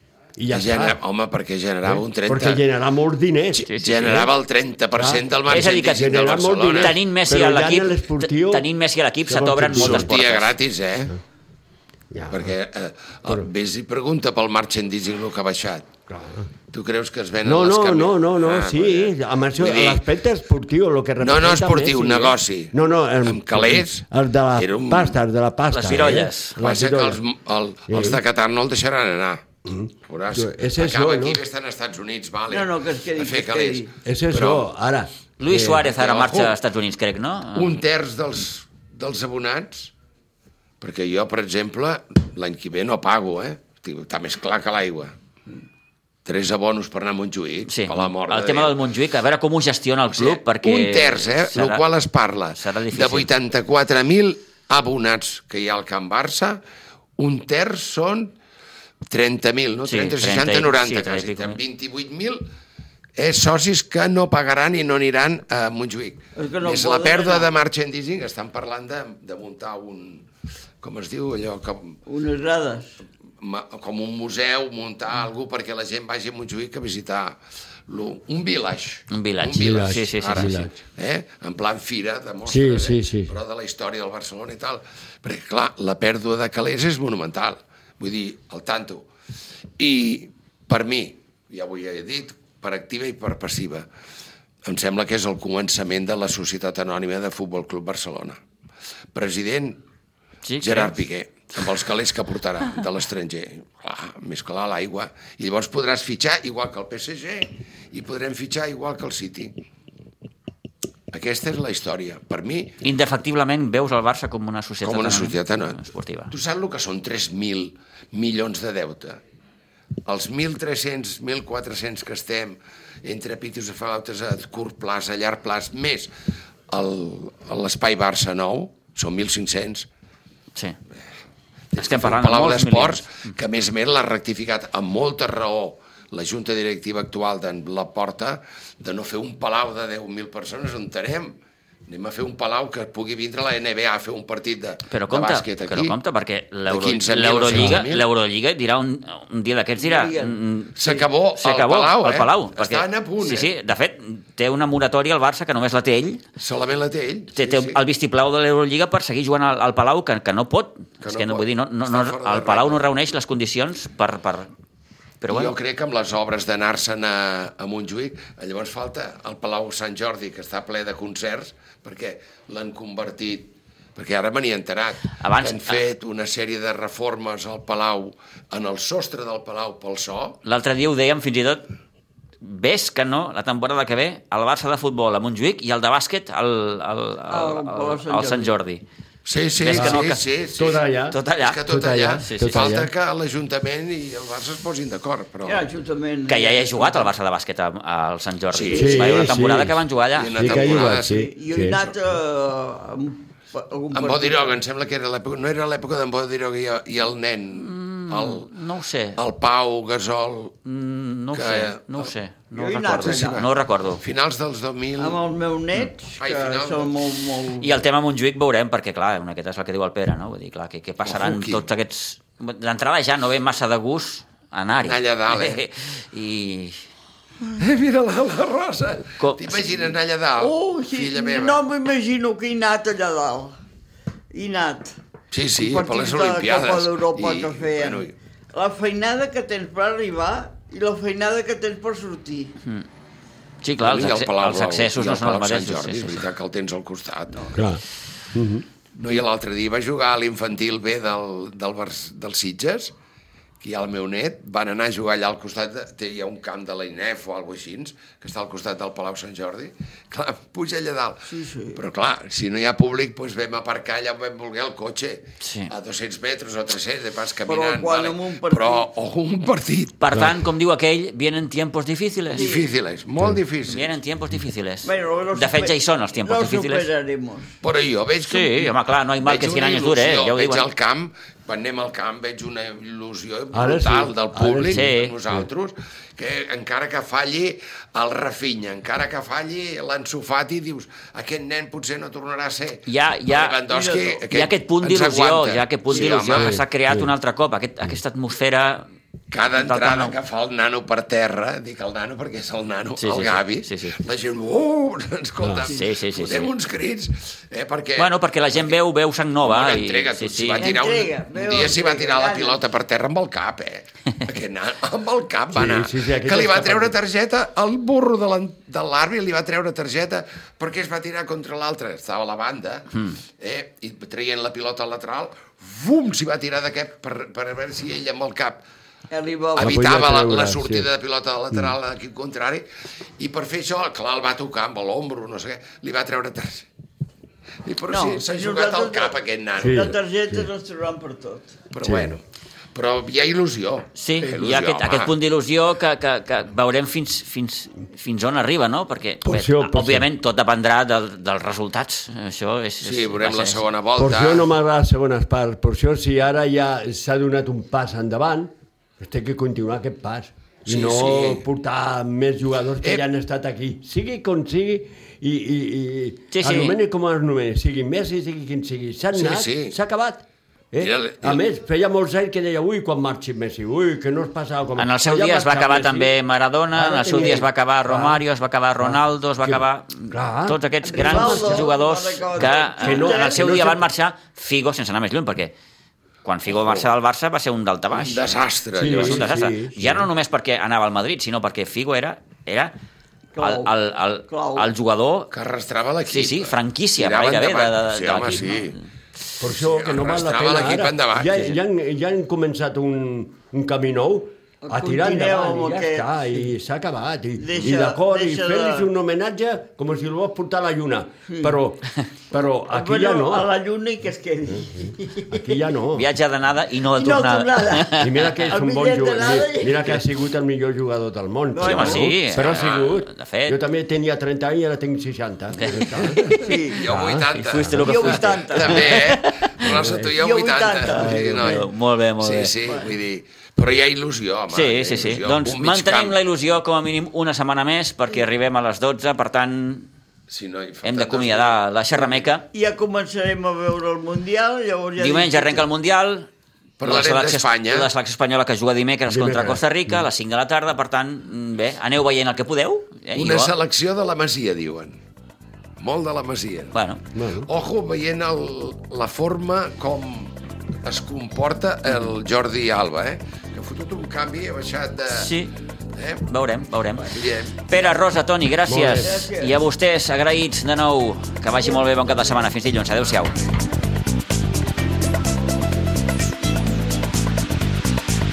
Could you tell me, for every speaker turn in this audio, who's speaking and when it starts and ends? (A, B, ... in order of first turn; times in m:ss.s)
0:00.4-0:01.0 A
0:00.5-0:02.6 B
0:01.9-0:04.3 A
0:03.6-0:07.0 B
0:03.7-0:04.0 C
0:05.0-0:08.7 A
0:05.5-0:10.6 C
0:09.3-0:10.2 A
0:09.8-0:11.2 B
0:12.1-0:12.5 A
0:12.3-0:15.9 B
0:16.1-0:16.5 A
0:16.7-0:20.0 B
0:17.4-0:27.2 A
0:21.2-0:25.2 B
0:25.7-0:26.6 C
0:26.6-0:29.4 B
0:27.9-0:28.2 A
0:29.6-0:31.4 A
0:30.1-0:34.7 B
0:32.5-0:33.9 D
0:34.0-0:35.9 A
0:35.4-0:37.8 C
0:35.8-0:36.6 B
0:37.6-0:39.9 B
0:40.8-0:45.1 B
0:46.2-0:48.8 B
0:47.7-0:51.8 C
0:50.1-0:56.6 B
0:52.5-0:53.3 C
0:57.2-0:58.3 B
0:59.1-1:02.4 B
0:59.9-1:01.6 C
1:03.2-1:10.3 B
1:06.4-1:07.5 D
1:10.8-1:12.0 B
1:12.1-1:13.0 D
1:13.4-1:29.1 B
1:19.1-1:20.7 C
1:19.5-1:20.7 A
1:22.5-1:23.3 A
1:29.8-1:33.9 B
1:34.6-1:38.4 B
1:39.1-1:39.8 B
1:40.4-1:41.0 C
1:40.6-1:49.5 B
1:51.1-1:52.8 B
1:52.8-1:56.3 C
1:54.8-1:59.2 B
2:00.1-2:06.1 B
2:06.7-2:09.9 B
2:11.7-2:26.0 B
2:11.8-2:13.3 C
2:24.9-2:36.2 C
2:26.7-2:28.0 B
2:27.5-2:27.8 A
2:29.8-2:30.9 D
2:30.8-2:33.5 B
2:36.4-2:37.8 B
2:37.4-2:44.5 C
2:41.0-2:42.8 B
2:45.2-2:45.6 C
2:45.3-3:00.4 B
2:55.2-2:55.8 C
3:00.4-3:01.7 C
3:02.4-3:08.8 C
3:07.3-3:08.5 D
3:09.3-3:15.7 B
3:09.6-3:10.2 C
3:09.7-3:12.9 A
3:11.1-3:11.6 C
3:12.2-3:12.7 C
3:15.4-3:17.1 D
3:16.3-3:20.9 C
3:18.5-3:19.5 B
3:18.7-3:21.8 A
3:20.1-3:21.9 B
3:20.9-3:24.6 D
3:23.9-3:28.5 B
3:27.6-3:29.2 C
3:29.2-3:30.6 B
3:30.6-3:34.0 C
3:31.3-3:32.1 B
3:32.5-3:33.4 D
3:33.0-3:33.5 B
3:34.0-3:35.2 B
3:35.0-3:37.7 D
3:36.2-3:36.9 B
3:37.6-3:46.8 C
3:41.0-3:41.7 B
3:44.8-3:45.6 B
3:47.6-3:51.6 B
3:49.2-3:49.7 C
3:50.4-3:53.6 D
3:54.3-3:55.0 D
3:55.3-3:58.2 B
3:55.6-4:02.5 D
4:03.6-4:06.2 C
4:03.8-4:07.7 B
4:07.6-4:07.8 A
4:08.3-4:08.6 A
4:08.9-4:12.9 B
4:13.6-4:30.0 B
4:21.3-4:21.8 D
4:25.4-4:25.7 C
4:27.5-4:28.9 D
4:30.0-4:32.5 C
4:32.3-4:34.0 B
4:32.3-4:32.7 D
4:33.7-4:36.9 C
4:34.8-4:37.6 D
4:37.6-4:56.6 B
4:38.2-4:40.7 C
4:43.5-4:45.5 A
4:44.7-4:45.2 C
4:52.9-4:53.6 C
4:53.7-4:54.2 D
4:54.3-4:58.9 C
4:55.9-4:56.2 D
4:56.3-4:57.1 A
4:59.3-5:08.8 B
4:59.5-5:00.2 C
5:03.0-5:04.0 C
5:05.4-5:05.7 A
5:05.7-5:06.5 C
5:08.0-5:10.8 C
5:09.4-5:28.6 B
5:10.6-5:12.6 D
5:15.5-5:17.0 A
5:29.1-5:29.9 D
5:29.6-5:32.7 B
5:29.6-5:30.9 A
5:33.2-5:36.7 B
5:37.6-5:39.9 B
5:37.9-5:41.6 D
5:39.6-5:40.5 A
5:41.7-5:45.1 B
5:41.8-5:42.2 A
5:44.0-5:53.6 C
5:49.2-5:50.1 A
5:52.8-5:54.5 B
5:54.0-6:16.1 A
6:00.7-6:01.4 B
6:06.3-6:06.8 C
6:09.2-6:09.8 B
6:10.8-6:11.4 B
6:14.8-6:25.5 C
6:16.7-6:18.2 A
6:18.8-6:21.7 A
6:20.8-6:23.6 D
6:22.4-6:23.9 A
6:26.2-6:28.3 C
6:26.5-6:26.9 B
6:27.9-6:29.3 B
6:28.8-6:30.1 A
6:28.8-6:32.8 C
6:33.4-6:33.7 D
6:33.4-6:35.3 C
6:34.3-6:34.7 D
6:35.3-6:38.8 B
6:36.1-6:38.8 C
6:39.4-6:53.5 A
6:39.5-6:41.5 B
6:44.6-6:46.4 D
6:47.4-6:48.9 D
6:51.3-6:51.6 D
6:52.7-6:55.7 D
6:55.3-6:56.1 A
6:55.9-6:58.2 C
6:57.0-7:00.0 D
6:57.9-7:06.4 A
7:01.5-7:02.2 D
7:01.6-7:03.6 C
7:02.4-7:02.9 B
7:05.6-7:09.8 C
7:06.1-7:11.7 B
7:06.3-7:06.8 D
7:06.9-7:07.8 A
7:07.8-7:09.0 D
7:09.6-7:10.2 A
7:10.2-7:11.3 D
7:10.9-7:11.7 A
7:11.4-7:12.6 C
7:12.2-7:16.2 B
7:14.5-7:19.9 C
7:20.3-7:21.6 B
7:20.8-7:22.4 C
7:22.5-7:25.6 D
7:25.0-7:26.3 C
7:26.8-7:27.9 B
7:26.8-7:33.5 C
7:29.1-7:30.1 A
7:33.2-7:35.0 B
7:35.8-7:36.8 B
7:36.7-7:37.0 C
7:37.1-7:37.5 A
7:37.4-7:45.3 B
7:45.1-7:45.5 C
7:46.0-7:46.2 B
7:46.3-7:53.4 C
7:47.0-7:47.6 B
7:48.7-7:49.2 A
7:49.0-7:49.6 D